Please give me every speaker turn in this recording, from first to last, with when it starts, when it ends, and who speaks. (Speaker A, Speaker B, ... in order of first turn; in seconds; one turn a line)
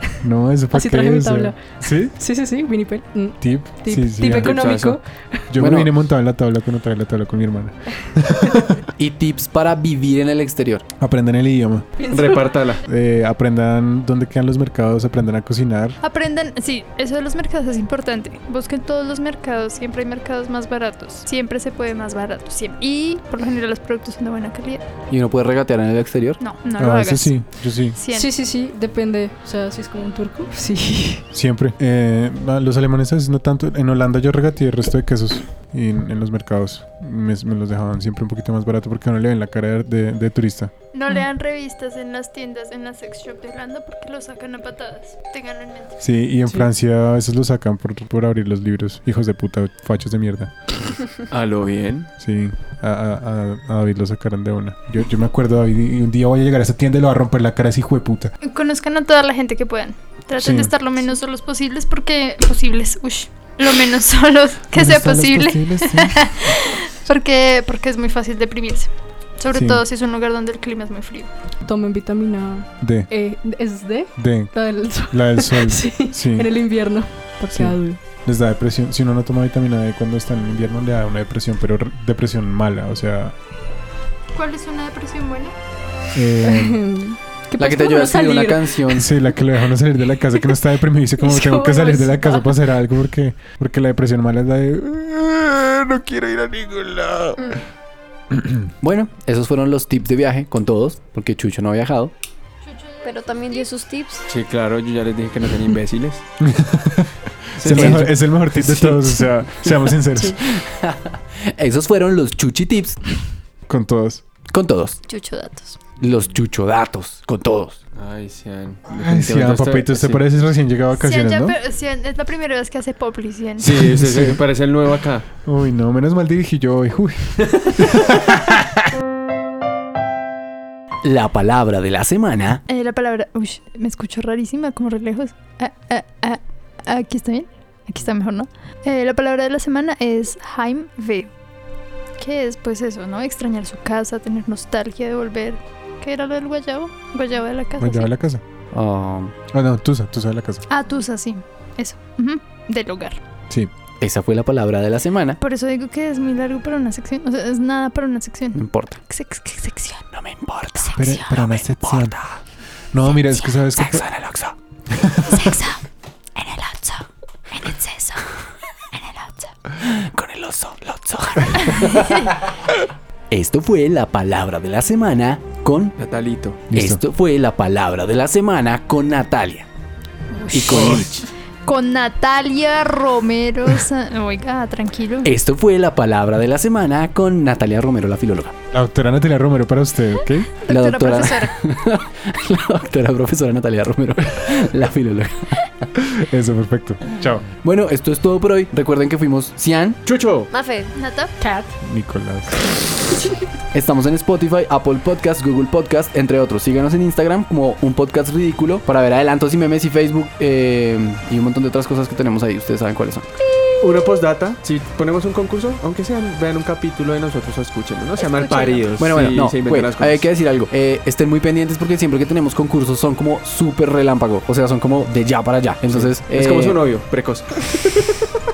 Speaker A: 0.2-2.1
Speaker B: 0.7-5.5
Speaker A: 3.4-4.5
Speaker C: 4.2-5.0
Speaker A: 5.5-8.8
Speaker D: 5.6-5.9
Speaker D: 9.0-10.8
Speaker A: 11.0-11.9
Speaker B: 12.0-12.6
Speaker C: 12.1-12.8
Speaker A: 12.8-16.0
Speaker E: 16.0-24.8
Speaker D: 25.1-26.4
Speaker E: 26.4-27.4
Speaker A: 26.8-27.9
Speaker E: 27.9-28.3
Speaker B: 28.1-31.2
Speaker A: 31.3-40.7
Speaker E: 40.9-46.0
Speaker A: 46.0-50.5
Speaker C: 51.3-52.1
Speaker A: 52.2-58.3
Speaker E: 58.4-71.3
Speaker A: 60.4-60.7
Speaker A: 64.7-66.5
Speaker A: 69.5-69.8
Speaker B: 71.6-78.0
Speaker A: 72.8-73.1
Speaker A: 74.2-74.5
Speaker A: 75.1-76.5
Speaker A: 77.5-83.3
Speaker E: 84.3-85.5
Speaker A: 86.1-86.8
Speaker B: 86.4-89.0
Speaker D: 87.6-89.1
Speaker A: 88.9-97.6
Speaker B: 91.2-92.6
Speaker D: 98.8-102.1
Speaker E: 102.6-103.7
Speaker F: 103.0-104.2
Speaker C: 104.3-106.2
Speaker A: 106.4-110.4
Speaker C: 107.6-109.2
Speaker D: 110.6-113.0
Speaker A: 113.7-114.2
Speaker D: 114.5-115.0
Speaker F: 115.1-115.8
Speaker D: 116.0-117.8
Speaker C: 117.9-120.3
Speaker A: 118.9-121.6
Speaker E: 120.9-123.8
Speaker C: 123.6-125.3
Speaker A: 123.7-124.4
Speaker A: 125.5-128.4
Speaker D: 131.0-132.6
Speaker E: 132.7-141.3
Speaker E: 142.2-148.1
Speaker A: 147.8-148.4
Speaker D: 148.7-149.3
Speaker A: 149.5-150.6
Speaker E: 150.7-153.2
Speaker D: 154.0-155.4
Speaker E: 155.4-160.1
Speaker D: 158.5-159.0
Speaker D: 160.1-162.3
Speaker A: 160.9-162.2
Speaker F: 161.0-161.5
Speaker A: 162.9-164.1
Speaker D: 163.7-164.5
Speaker A: 164.9-165.6
Speaker E: 165.3-165.8
Speaker F: 166.4-167.8
Speaker E: 167.7-168.1
Speaker F: 168.9-169.5
Speaker D: 169.8-172.2
Speaker E: 171.8-172.3
Speaker D: 173.3-175.9
Speaker C: 176.0-176.6
Speaker A: 176.7-177.0
Speaker D: 176.7-179.7
Speaker E: 180.3-180.7
Speaker D: 180.5-181.3
Speaker C: 180.6-181.1
Speaker E: 181.6-185.3
Speaker D: 185.2-188.5
Speaker A: 188.7-190.6
Speaker E: 190.6-191.5
Speaker D: 190.7-195.7
Speaker A: 196.0-197.4
Speaker D: 197.6-200.0
Speaker C: 200.0-200.5
Speaker F: 200.5-200.9
Speaker E: 200.9-201.3
Speaker B: 201.4-201.7
Speaker A: 201.8-202.5
Speaker D: 203.7-213.3
Speaker C: 213.8-220.3
Speaker F: 218.2-218.9
Speaker D: 219.0-226.8
Speaker C: 225.9-227.7